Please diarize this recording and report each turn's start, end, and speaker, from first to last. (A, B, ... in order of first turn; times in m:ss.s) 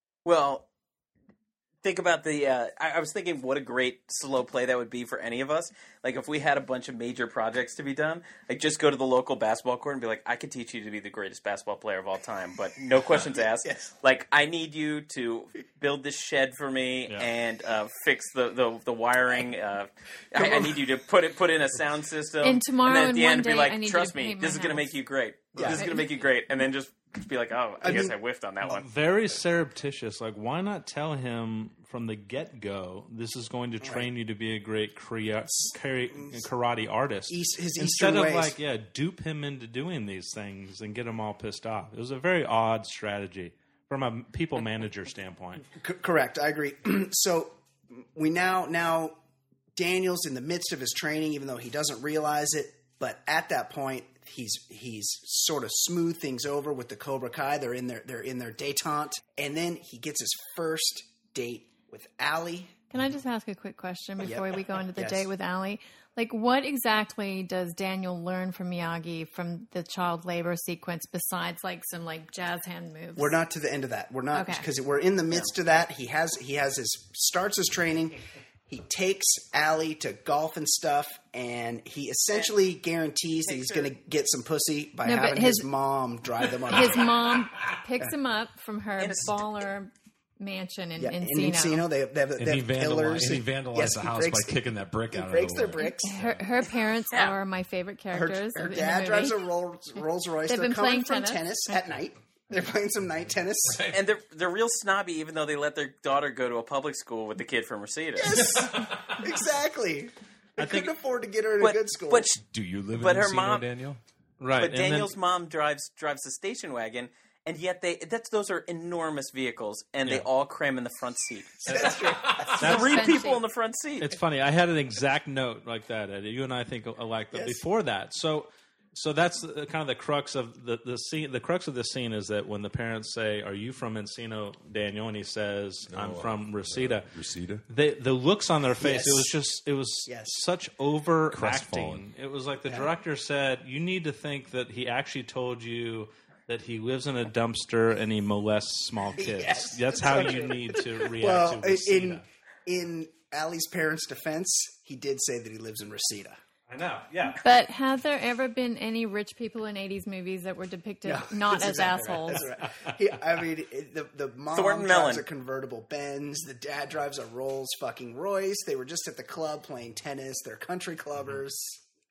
0:00.2-0:00.6 A
0:01.8-0:28.9 A
0:13.4-0:13.9 B
0:20.4-0:20.8 B
0:22.4-0:24.9 C
0:25.6-0:25.9 B
0:25.6-0:26.1 C
0:27.8-0:28.2 B
0:28.6-0:45.7 D
0:33.8-0:34.1 B
0:35.5-0:36.4 B
0:37.3-0:38.6 B
0:45.8-0:49.2 B
0:49.8-1:02.9 B
1:02.9-1:13.4 C
1:04.2-1:05.3 B
1:13.2-1:27.1 B
1:14.3-1:14.7 C
1:23.5-1:23.9 A
1:25.0-1:25.7 C
1:26.7-1:31.8 C
1:29.0-1:29.5 A
1:31.0-1:36.1 B
1:32.4-1:36.4 E
1:35.8-1:39.4 C
1:37.1-1:37.4 A
1:38.1-1:43.8 B
1:40.5-1:41.4 C
1:43.7-1:44.0 E
1:43.9-1:48.4 A
1:48.2-1:52.3 B
1:48.4-1:49.3 E
1:50.6-1:50.9 D
1:51.6-1:52.4 A
1:52.4-1:54.0 E
1:53.0-1:53.6 A
1:54.4-1:55.1 D
1:54.6-2:01.7 A
2:01.7-2:02.7 B
2:02.4-2:04.2 A
2:02.6-2:03.1 D
2:02.6-2:03.4 C
2:04.0-2:17.1 D
2:07.3-2:07.6 B
2:15.9-2:17.6 E
2:17.7-2:32.2 D
2:18.8-2:19.3 B
2:20.1-2:20.4 B
2:21.3-2:22.0 E
2:29.2-2:36.4 B
2:36.7-2:37.4 D
2:37.4-2:42.5 C
2:41.0-2:51.8 B
2:44.5-2:45.2 A